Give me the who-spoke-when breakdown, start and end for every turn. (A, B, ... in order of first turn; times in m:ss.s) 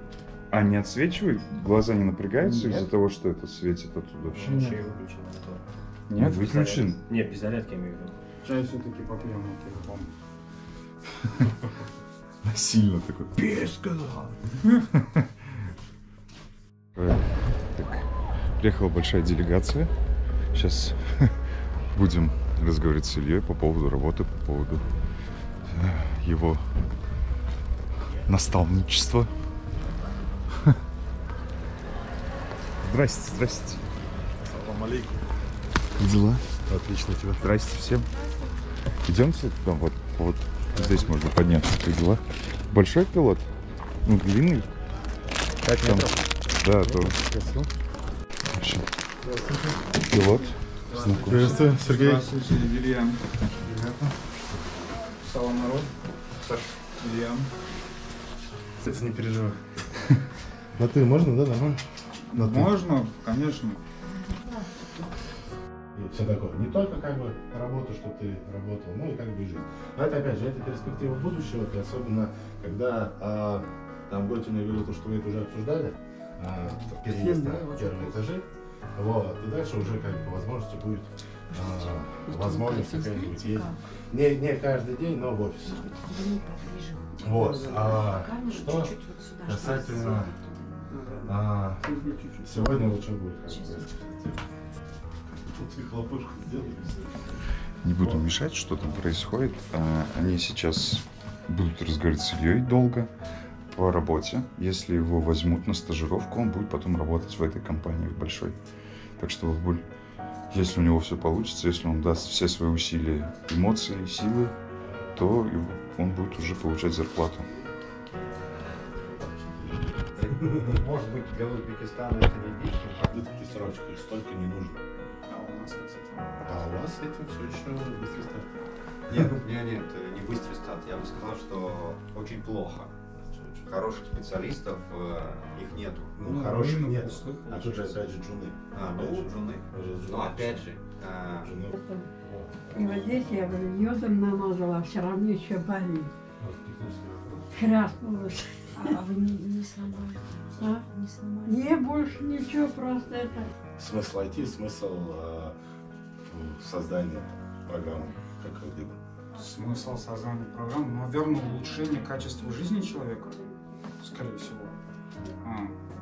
0:00.5-0:04.7 A
0:02.4-0:02.9 B
0:04.3-0:05.6 C
0:04.3-0:05.0 B
0:06.1-0:06.8 B
0:06.2-0:07.0 A
0:06.5-0:08.2 C
0:08.4-0:10.1 B
0:12.4-0:15.3 A
0:17.0-0:18.1 A
0:18.6-0:19.9 A
0:20.5-0:21.4 A
0:21.9-0:24.8 A
0:25.7-0:26.6 A
0:28.2-0:29.3 A
0:32.8-0:33.8 A
0:34.4-0:35.2 D
0:36.0-0:36.4 A
0:36.7-0:37.5 D
0:37.4-0:38.1 A
0:39.0-0:43.5 A
0:40.8-0:41.1 D
0:44.0-0:44.7 A
0:45.6-0:47.2 A
0:45.7-0:46.1 D
0:46.6-0:47.7 D
0:48.5-0:48.8 A
0:49.2-0:49.9 D
0:50.0-0:51.6 A
0:51.0-0:53.9 B
0:51.1-0:52.2 D
0:55.2-0:55.9 B
0:57.0-0:57.5 B
0:58.8-0:59.6 D
1:00.8-1:01.8 D
1:02.3-1:03.8 B
1:02.3-1:02.7 D
1:05.9-1:18.4 D
1:17.0-1:17.9 C
1:19.0-1:25.9 D
1:23.3-1:23.7 E
1:25.8-1:27.2 E
1:27.2-1:30.3 D
1:27.8-1:30.2 E
1:30.9-1:31.3 B
1:31.2-1:31.8 D
1:31.8-1:32.6 B
1:32.4-1:34.4 D
1:35.3-1:37.2 D
1:37.8-1:43.1 A
1:38.0-1:38.2 D
1:43.7-1:48.6 A
1:49.2-1:49.8 A
1:50.5-1:54.5 A
1:55.1-1:57.5 A
2:00.1-2:03.7 F
2:03.1-2:04.8 D
2:05.3-2:06.6 B
2:06.4-2:08.5 D
2:09.1-2:12.9 F
2:13.3-2:13.7 D
2:13.6-2:16.2 F
2:16.2-2:20.6 D
2:16.2-2:17.5 B
2:17.5-2:18.0 F
2:18.7-2:21.6 F
2:21.4-2:23.0 D
2:21.7-2:22.1 G
2:22.7-2:26.1 G
2:26.4-2:27.5 D
2:27.5-2:29.1 G
2:28.8-2:29.2 E
2:30.5-2:31.7 E
2:30.6-2:30.9 G
2:31.4-2:33.5 G
2:33.7-2:35.5 D
2:36.3-2:39.0 D
2:39.4-2:43.5 B
2:44.0-2:44.7 B
2:45.4-2:45.8 B